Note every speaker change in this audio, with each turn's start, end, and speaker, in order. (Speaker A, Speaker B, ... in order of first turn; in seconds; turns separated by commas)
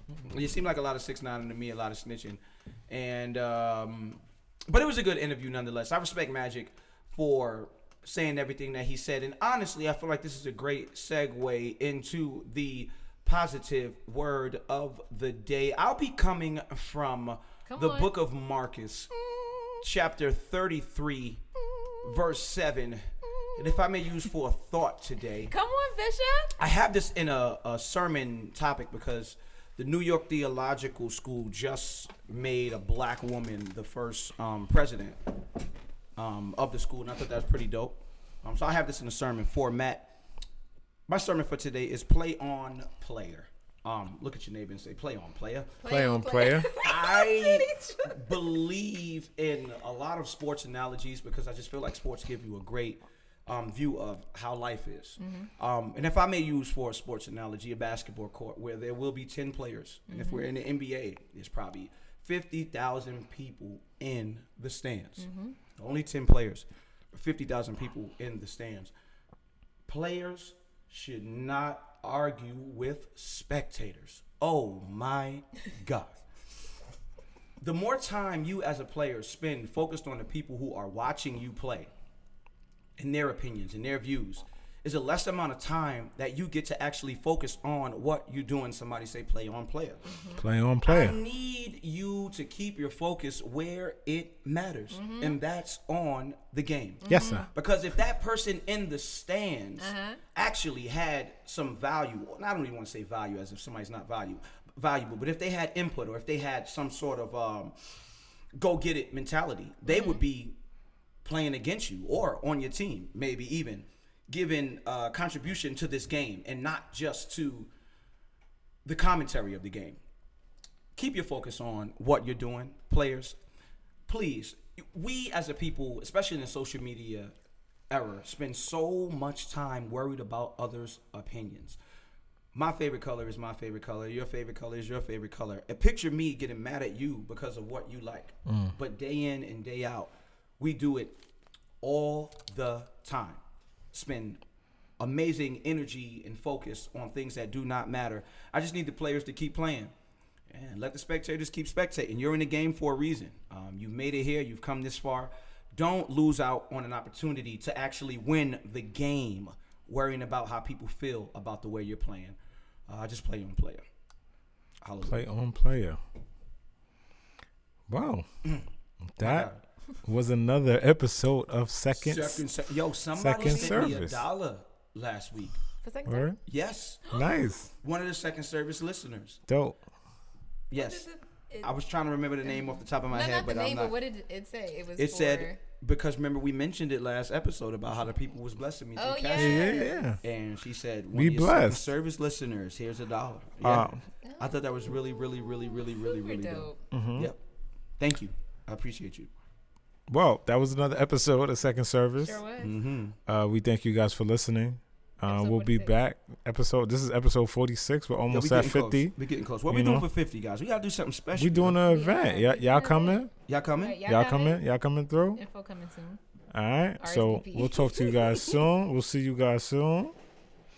Speaker A: 0.2-19.1, Speaker B: 17.7-18.1, Speaker B: 19.1-19.9, Speaker A: 19.8-21.4, Speaker B: 21.6-22.2, Speaker A: 22.0-25.5, Speaker B: 23.2-23.8, Speaker B: 25.5-26.5, Speaker A: 26.6-35.2, Speaker A: 36.2-40.1, Speaker A: 41.1-45.8, Speaker B: 45.8-48.4, Speaker C: 45.9-46.7, Speaker A: 46.8-68.9, Speaker B: 55.2-55.5, Speaker B: 60.1-60.5, Speaker B: 65.2-65.6, Speaker A: 69.9-76.2, Speaker A: 77.6-81.9, Speaker A: 83.0-90.1, Speaker B: 90.1-90.4, Speaker C: 90.4-91.2, Speaker A: 90.8-107.7, Speaker B: 94.9-95.4, Speaker B: 97.0-97.5, Speaker C: 97.1-97.5, Speaker B: 99.8-100.2, Speaker A: 108.6-110.5, Speaker B: 109.9-110.2, Speaker A: 111.2-117.7, Speaker A: 118.8-120.0, Speaker A: 121.0-123.3, Speaker A: 124.1-127.3, Speaker A: 127.9-131.8, Speaker A: 132.5-141.1, Speaker C: 138.5-138.8, Speaker A: 141.8-143.4, Speaker A: 143.9-144.4, Speaker A: 145.0-149.9, Speaker A: 150.5-162.4, Speaker A: 162.9-163.8, Speaker A: 164.8-165.2, Speaker C: 165.0-166.0, Speaker C: 167.9-168.3, Speaker C: 169.2-169.5, Speaker A: 169.2-169.6, Speaker C: 170.0-172.4, Speaker A: 172.0-175.6, Speaker C: 173.1-174.2, Speaker B: 173.4-173.9, Speaker B: 175.8-176.3, Speaker C: 176.1-176.4, Speaker A: 176.5-177.0, Speaker B: 177.1-177.4, Speaker C: 177.1-177.7, Speaker A: 177.8-179.4, Speaker C: 179.5-179.8, Speaker A: 180.7-181.1, Speaker B: 180.7-181.8, Speaker A: 181.6-184.0, Speaker B: 182.4-185.6, Speaker A: 185.0-197.4, Speaker B: 189.0-190.2, Speaker C: 189.3-190.2, Speaker C: 191.1-191.9, Speaker C: 193.6-194.0, Speaker B: 194.2-196.8, Speaker C: 196.9-197.3, Speaker A: 198.0-199.3, Speaker C: 200.1-202.4, Speaker B: 202.2-202.8, Speaker A: 202.6-203.2, Speaker C: 203.3-209.1, Speaker B: 205.2-206.0, Speaker A: 208.3-211.8, Speaker C: 209.7-210.1, Speaker C: 211.3-213.3, Speaker B: 211.8-214.6, Speaker A: 213.5-214.0, Speaker C: 214.1-215.4, Speaker B: 215.3-216.2, Speaker C: 216.5-220.2, Speaker B: 217.0-218.6